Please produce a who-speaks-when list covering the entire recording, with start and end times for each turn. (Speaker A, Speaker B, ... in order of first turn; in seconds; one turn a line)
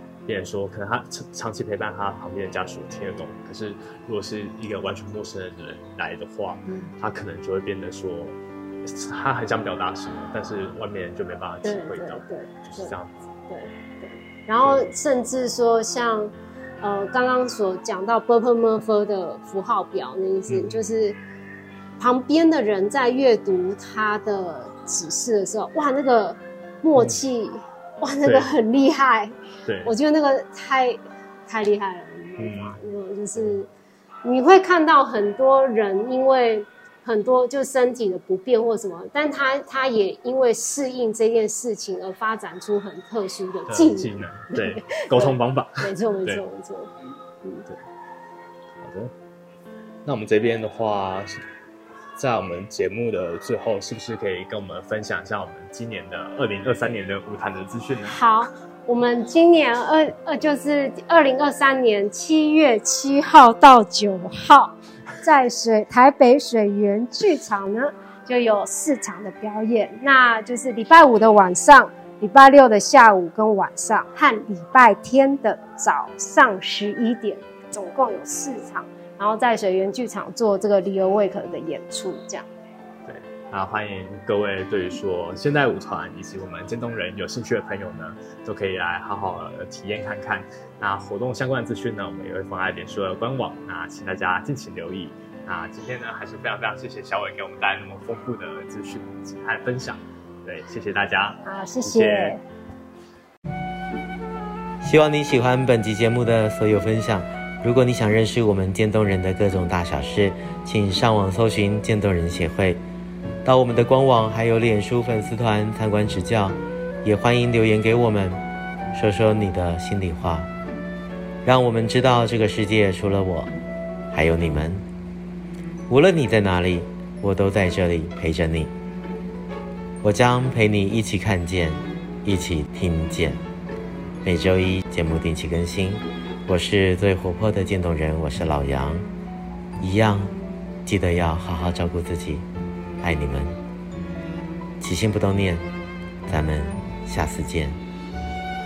Speaker A: 0.3-13.3
Speaker B: 11.6-13.0
Speaker B: 13.5-21.2
Speaker A: 14.6-14.9
Speaker A: 20.5-20.8
Speaker B: 22.0-33.7
Speaker A: 26.9-27.2
Speaker A: 28.2-28.5
Speaker A: 29.6-29.9
Speaker A: 32.4-32.8
Speaker B: 34.2-46.9
Speaker A: 43.7-46.4
Speaker A: 48.8-49.1
Speaker A: 50.0-51.4
Speaker A: 52.2-58.1
Speaker B: 58.0-82.5
Speaker A: 83.1-102.4
Speaker B: 101.4-102.4
Speaker C: 104.8-112.8
Speaker C: 113.4-118.4
Speaker C: 118.9-120.5
Speaker C: 121.4-123.5
Speaker C: 124.1-124.8
Speaker C: 125.9-128.7
Speaker C: 130.0-133.4
Speaker C: 134.2-139.1
Speaker C: 139.8-140.3
Speaker C: 140.8-142.4
Speaker C: 143.0-143.6
Speaker C: 144.8-145.7
Speaker C: 146.3-147.8